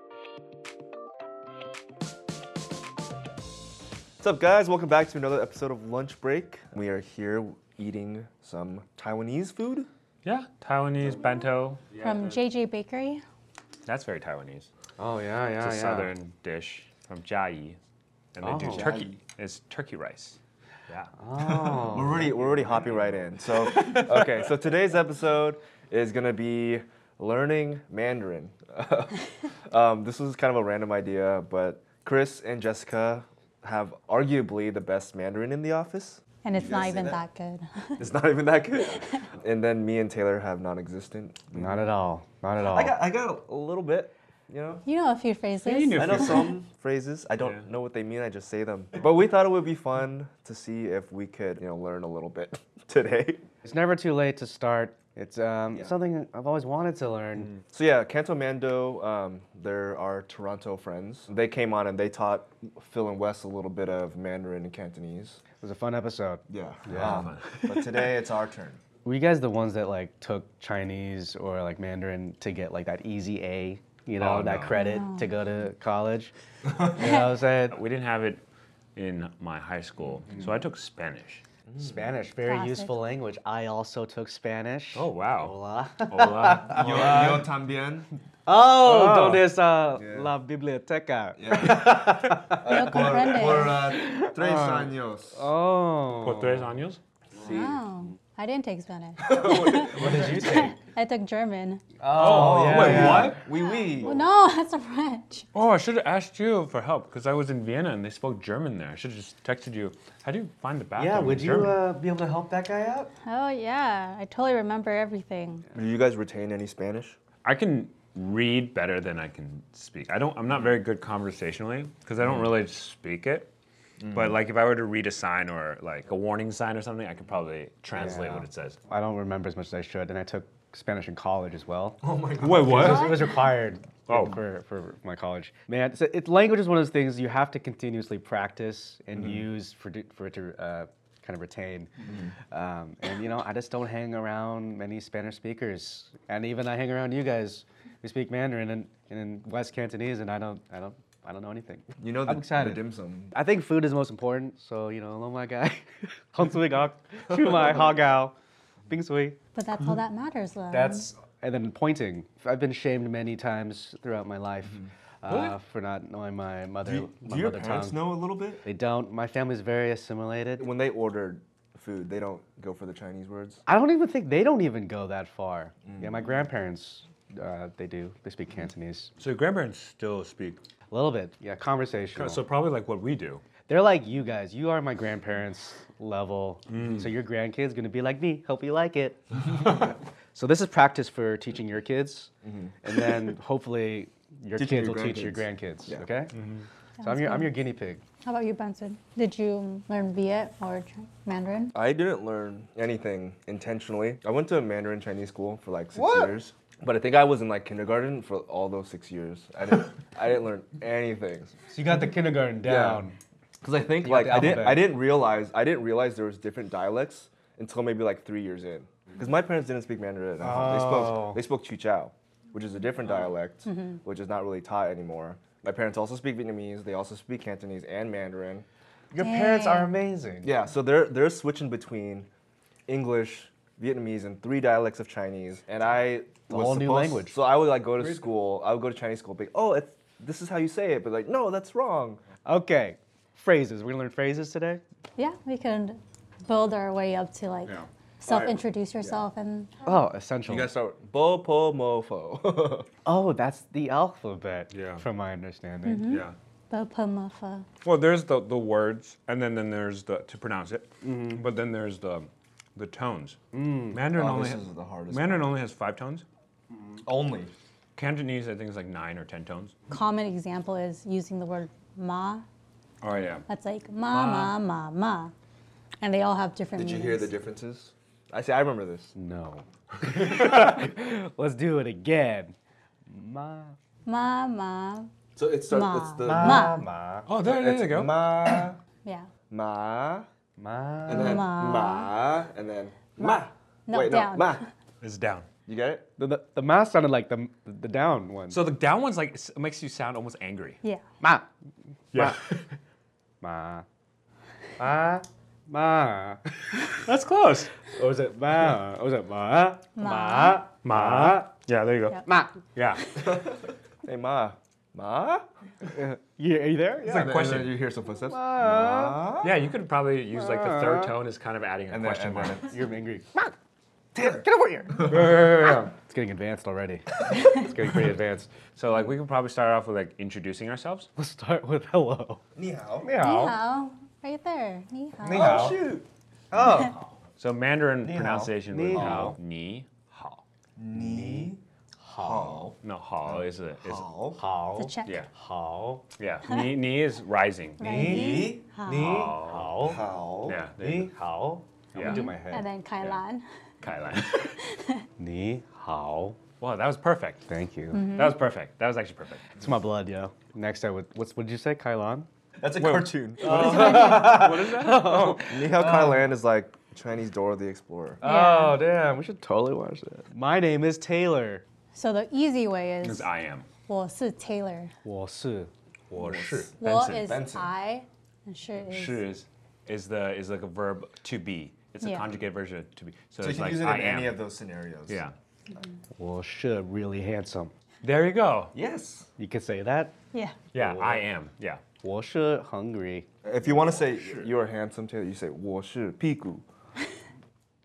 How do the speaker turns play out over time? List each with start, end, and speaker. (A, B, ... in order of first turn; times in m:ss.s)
0:04.2-0:09.9 A
0:10.2-0:12.4 B
0:12.0-0:13.2 C
0:13.8-0:14.7 B
0:15.0-0:16.1 D
0:15.6-0:17.8 B
0:18.3-0:21.1 B
0:18.4-0:18.9 D
0:18.6-0:19.2 A
0:21.2-0:22.7 D
0:21.4-0:37.2 A
0:36.4-0:38.0 C
0:38.0-0:41.8 A
0:41.5-0:43.0 D
0:42.6-0:44.8 A
0:44.8-0:46.6 C
0:45.6-0:46.5 B
0:45.9-0:53.4 A
0:47.4-0:47.6 B
0:53.6-0:57.5 D
0:57.7-1:05.4 A
1:05.6-1:07.8 D
1:06.5-1:08.8 A
1:06.9-1:07.5 B
1:09.0-1:17.8 D
1:14.2-1:14.8 B
1:14.7-1:15.3 C
1:17.0-1:17.2 C
1:17.7-1:18.4 B
1:18.9-1:21.4 B
1:21.7-1:22.1 A
1:21.8-1:27.4 D
1:22.4-1:23.0 C
1:24.9-1:25.5 B
1:26.1-1:27.4 B
1:26.7-1:28.1 A
1:28.4-1:36.7 D
1:28.8-1:30.3 A
1:31.4-1:35.5 A
1:32.6-1:33.9 C
1:36.2-1:37.0 B
1:37.4-1:37.8 A
1:37.4-1:41.8 C
1:39.2-1:40.6 A
1:39.8-1:40.7 D
1:42.0-1:43.4 D
1:42.1-1:43.4 B
1:42.1-1:44.2 A
1:43.4-1:45.4 C
1:45.5-1:51.8 B
1:51.0-1:53.1 D
1:53.2-1:55.6 C
1:55.7-1:57.2 A
1:57.4-2:03.5 B
2:02.2-2:02.5 A
2:04.0-2:04.4 A
2:04.1-2:08.8 B
2:07.9-2:12.0 D
2:12.0-2:13.2 A
2:12.4-2:13.1 B
2:12.6-2:21.9 D
2:13.0-2:13.4 C
2:14.1-2:14.4 B
2:19.1-2:19.4 A
2:22.0-2:22.3 A
2:22.5-2:32.8 D
2:32.0-2:33.3 A
2:33.3-2:38.3 D
2:38.9-2:39.4 D
2:39.5-2:41.1 C
2:40.7-2:48.1 D
2:46.8-2:48.6 A
2:48.6-2:50.7 D
2:50.6-2:53.6 A
2:53.7-2:59.1 D
2:55.8-2:56.2 A
2:59.2-3:00.6 B
3:00.9-3:02.4 D
3:02.1-3:03.4 B
3:03.7-3:12.3 D
3:06.7-3:07.1 B
3:12.4-3:12.9 A
3:12.8-3:16.3 D
3:14.6-3:16.1 A
3:16.3-3:16.6 B
3:17.0-3:17.5 C
3:17.0-3:18.0 D
3:18.2-3:21.7 C
3:21.7-3:31.5 A
3:25.9-3:26.3 D
3:31.7-3:33.2 D
3:32.6-3:33.0 A
3:33.6-3:48.6 A
3:34.0-3:35.0 D
3:40.4-3:41.4 D
3:43.6-3:44.0 C
3:49.1-3:50.5 D
3:49.2-3:49.9 C
3:50.4-3:52.3 A
3:52.9-4:02.2 A
3:56.5-3:57.4 D
3:58.0-3:58.2 B
4:02.4-4:04.8 D
4:05.2-4:09.7 C
4:08.3-4:09.2 A
4:09.8-4:10.7 D
4:10.4-4:12.9 A
4:13.0-4:16.2 D
4:14.7-4:15.0 B
4:15.8-4:17.7 C
4:16.1-4:16.3 B
4:17.8-4:23.4 B
4:21.0-4:21.4 D
4:23.5-4:24.0 D
4:23.9-4:26.2 B
4:24.1-4:25.6 A
4:27.0-4:27.5 A
4:28.0-4:29.7 B
4:29.9-4:32.4 C
4:33.0-4:33.4 B
4:33.5-4:35.3 C
4:34.1-4:34.6 B
4:36.0-4:37.3 C
4:36.7-4:39.1 A
4:39.1-4:42.5 D
4:43.1-4:43.8 D
4:44.0-4:45.1 C
4:45.4-4:46.7 A
4:45.7-4:46.8 C
4:46.2-4:47.3 D
4:47.3-4:48.5 B
4:47.4-4:48.8 A
4:49.0-4:49.3 C
4:49.5-4:50.3 A
4:50.6-4:51.4 D
4:51.1-4:54.6 A
4:51.1-4:52.1 C
4:53.2-4:54.6 C
4:55.0-4:55.5 B
4:55.6-4:56.1 A
4:56.2-4:58.6 D
4:58.5-5:00.8 B
5:01.2-5:01.5 D
5:02.1-5:02.4 D
5:02.1-5:02.6 B
5:03.4-5:03.8 D
5:04.8-5:06.8 D
5:07.0-5:07.7 B
5:07.9-5:11.5 D
5:10.0-5:10.6 C
5:10.8-5:12.2 B
5:12.2-5:12.5 D
5:12.7-5:13.0 B
5:13.2-5:15.4 A
5:15.9-5:17.3 D
5:17.0-5:19.6 A
5:17.1-5:17.8 B
5:18.3-5:19.2 D
5:19.4-5:22.6 B
5:20.3-5:21.1 D
5:21.9-5:22.8 A
5:22.7-5:23.5 D
5:24.1-5:25.4 A
5:24.2-5:25.4 D
5:25.1-5:25.9 B
5:26.0-5:28.5 D
5:27.4-5:27.6 C
5:28.8-5:31.1 B
5:31.2-5:32.4 D
5:32.6-5:33.1 A
5:33.0-5:33.6 D
5:33.2-5:35.7 C
5:35.2-5:35.8 D
5:35.3-5:36.1 A
5:36.5-5:37.0 D
5:37.4-5:40.4 B
5:38.0-5:39.4 A
5:38.7-5:39.4 D
5:40.8-5:41.6 A
5:40.9-5:42.7 D
5:42.2-5:44.4 A
5:42.8-5:44.0 B
5:44.4-5:46.0 D
5:44.8-5:45.2 C
5:46.2-5:48.0 B
5:47.8-5:49.1 C
5:47.8-5:50.0 D
5:47.9-5:48.6 A
5:48.9-5:49.9 B
5:49.8-5:50.6 A
5:50.4-5:51.1 B
5:50.8-5:52.7 D
5:51.9-5:52.3 B
5:52.0-5:53.4 C
5:53.8-5:54.4 B
5:54.3-5:55.0 C
5:55.2-5:56.4 D
5:56.6-5:57.4 B
5:57.5-5:58.0 D
5:57.9-5:58.4 C
5:58.1-5:59.4 B
5:59.6-6:02.3 D
6:02.6-6:04.1 A
6:02.8-6:05.5 B
6:03.4-6:06.3 D
6:03.5-6:04.4 C
6:05.4-6:08.2 A
6:08.2-6:08.8 C
6:08.2-6:11.6 D
6:11.9-6:13.3 C
6:13.0-6:13.7 B
6:13.9-6:14.9 C
6:15.0-6:15.7 D
6:16.1-6:17.2 B
6:16.2-6:17.7 A
6:16.8-6:19.2 C
6:18.9-6:24.4 B
6:22.0-6:22.3 C
6:23.4-6:25.2 A
6:25.1-6:25.4 B
6:26.2-6:27.7 D
6:28.0-6:28.7 B
6:28.7-6:29.3 A
6:29.4-6:30.1 D
6:30.3-6:30.6 C
6:30.7-6:31.3 D
6:30.7-6:31.8 B
6:32.0-6:33.2 D
6:33.4-6:36.6 A
6:33.8-6:34.5 B